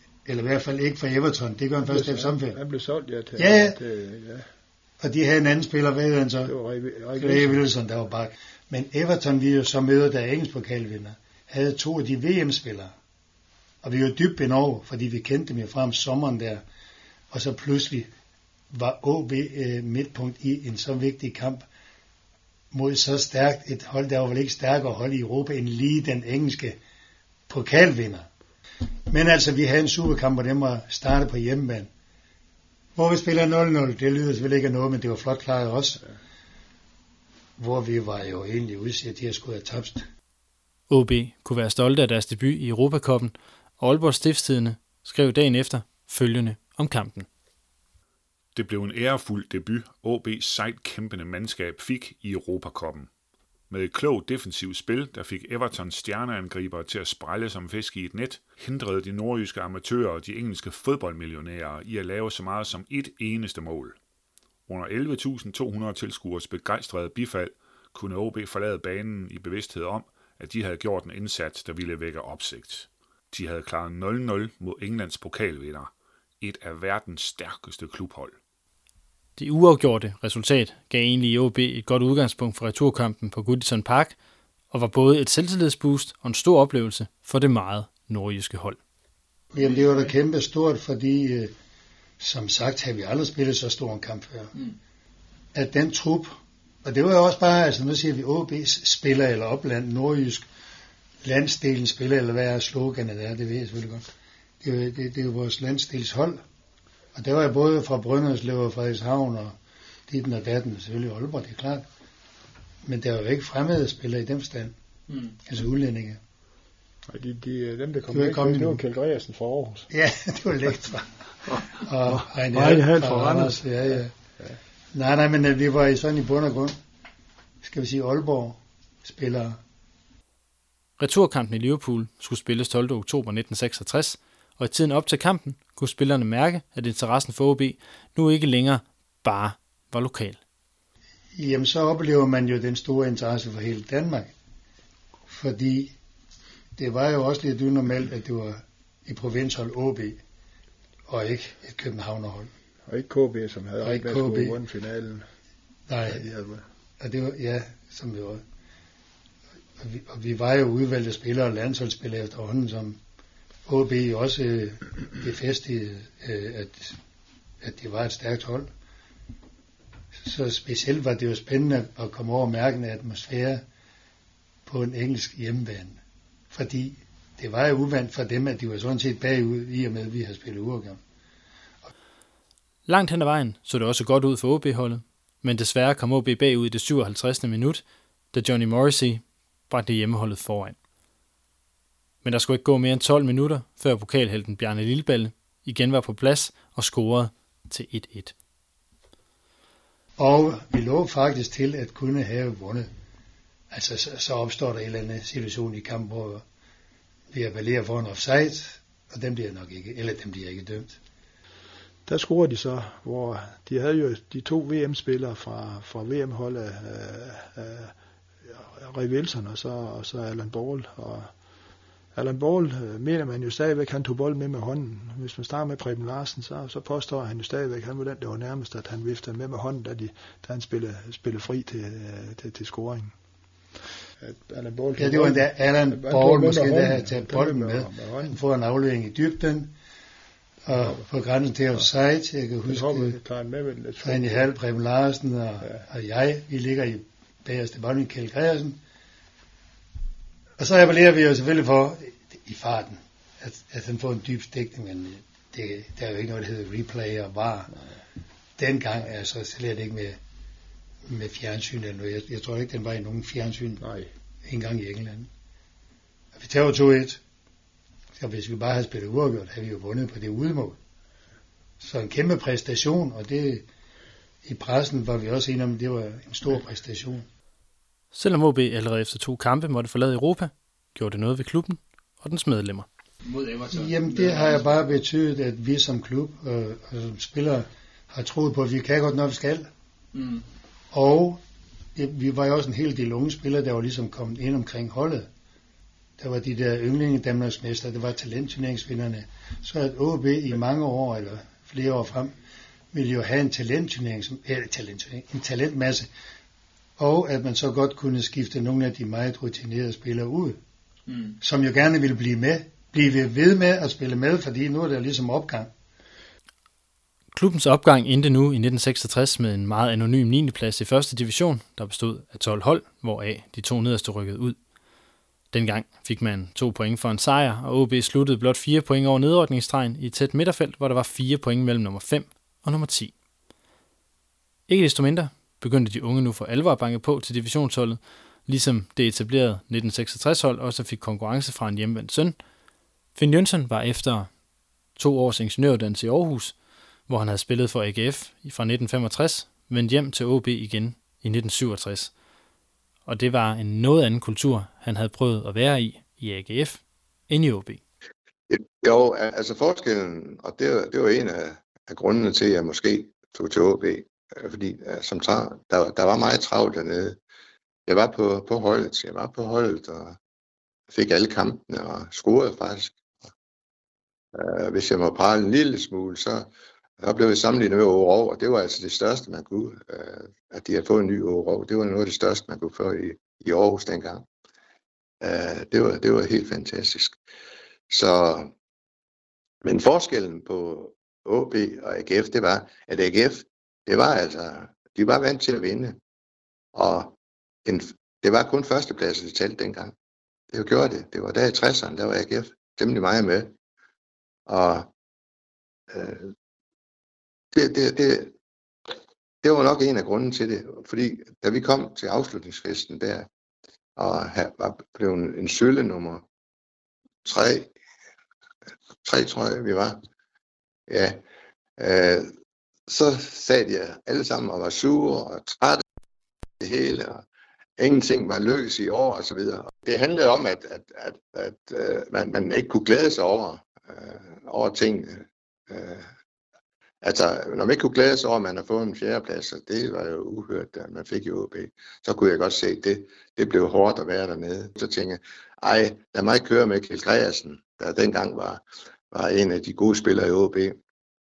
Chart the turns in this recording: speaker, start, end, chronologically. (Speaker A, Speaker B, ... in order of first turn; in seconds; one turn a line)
Speaker A: 0.2-2.6
Speaker B: 1.8-4.5
Speaker A: 3.4-3.8
Speaker A: 5.0-6.5
Speaker B: 6.5-7.6
Speaker A: 7.1-12.9
Speaker A: 13.8-16.6
Speaker A: 17.3-18.1
Speaker A: 18.7-21.6
Speaker A: 22.7-26.8
Speaker A: 27.5-28.3
Speaker A: 29.1-31.9
Speaker A: 33.0-36.0
Speaker A: 37.6-40.0
Speaker C: 40.9-47.3
Speaker D: 48.5-53.1
Speaker D: 53.7-64.0
Speaker D: 64.7-78.4
Speaker C: 79.4-84.1
Speaker C: 84.7-88.8
Speaker A: 89.5-91.5
Speaker A: 92.2-94.5
Speaker A: 95.5-100.4
Speaker A: 101.2-104.0
Speaker A: 104.6-106.4
Speaker A: 107.1-109.5
Speaker A: 110.1-111.8
Speaker A: 112.8-114.7
Speaker A: 115.4-116.2
Speaker B: 117.1-119.9
Speaker A: 118.1-118.8
Speaker A: 119.9-124.1
Speaker B: 121.5-124.6
Speaker A: 124.9-126.8
Speaker A: 127.6-129.6
Speaker C: 131.0-140.4
Speaker A: 141.4-144.3
Speaker A: 145.3-145.9
Speaker A: 146.8-150.2
Speaker A: 151.1-152.5
Speaker B: 152.8-155.2
Speaker A: 153.8-154.6
Speaker A: 155.9-156.2
Speaker B: 156.1-156.6
Speaker A: 157.0-158.4
Speaker A: 159.8-163.0
Speaker A: 163.7-167.0
Speaker A: 167.6-168.7
Speaker A: 170.2-173.6
Speaker A: 174.7-176.0
Speaker A: 176.5-181.0
Speaker C: 182.9-190.8
Speaker C: 192.2-198.3
Speaker A: 200.2-202.9
Speaker A: 203.7-206.4
Speaker A: 207.3-211.0
Speaker B: 212.1-217.9
Speaker B: 218.4-221.3
Speaker B: 222.1-233.1
Speaker B: 234.2-238.4
Speaker A: 234.9-239.7
Speaker A: 240.7-243.2
Speaker B: 240.7-241.1
Speaker B: 242.7-244.5
Speaker A: 244.0-248.8
Speaker B: 245.6-245.8
Speaker A: 250.6-257.7
Speaker A: 258.6-260.2
Speaker A: 261.1-263.9
Speaker B: 263.8-264.1
Speaker A: 264.4-265.3
Speaker A: 266.4-267.2
Speaker A: 268.2-270.8
Speaker A: 271.8-273.6
Speaker A: 274.4-277.2
Speaker C: 278.1-282.9
Speaker A: 283.7-289.7
Speaker A: 290.9-291.4
Speaker A: 291.9-295.3
Speaker A: 296.2-302.3
Speaker A: 302.9-306.1
Speaker A: 307.0-310.6
Speaker A: 311.4-315.7
Speaker C: 317.3-324.6
Speaker C: 325.5-333.1
Speaker C: 334.7-342.4
Speaker C: 343.1-344.3
Speaker C: 344.9-346.5
Speaker C: 347.1-352.1
Speaker C: 353.1-357.8
Speaker E: 358.5-367.2
Speaker E: 367.9-370.2
Speaker E: 370.9-373.0
Speaker E: 374.3-376.5
Speaker E: 377.0-384.2
Speaker E: 385.2-387.2
Speaker E: 387.9-388.5
Speaker E: 389.6-396.0
Speaker E: 396.7-397.1
Speaker E: 397.6-399.9
Speaker E: 400.5-403.5
Speaker E: 404.5-404.9
Speaker E: 405.9-406.3
Speaker E: 407.5-408.3
Speaker E: 409.4-413.3
Speaker E: 414.0-416.2
Speaker E: 417.2-417.7
Speaker E: 419.0-420.0
Speaker E: 420.9-421.2
Speaker E: 421.8-422.3
Speaker E: 422.9-425.8
Speaker E: 426.6-427.2
Speaker E: 427.8-436.1
Speaker E: 437.0-450.8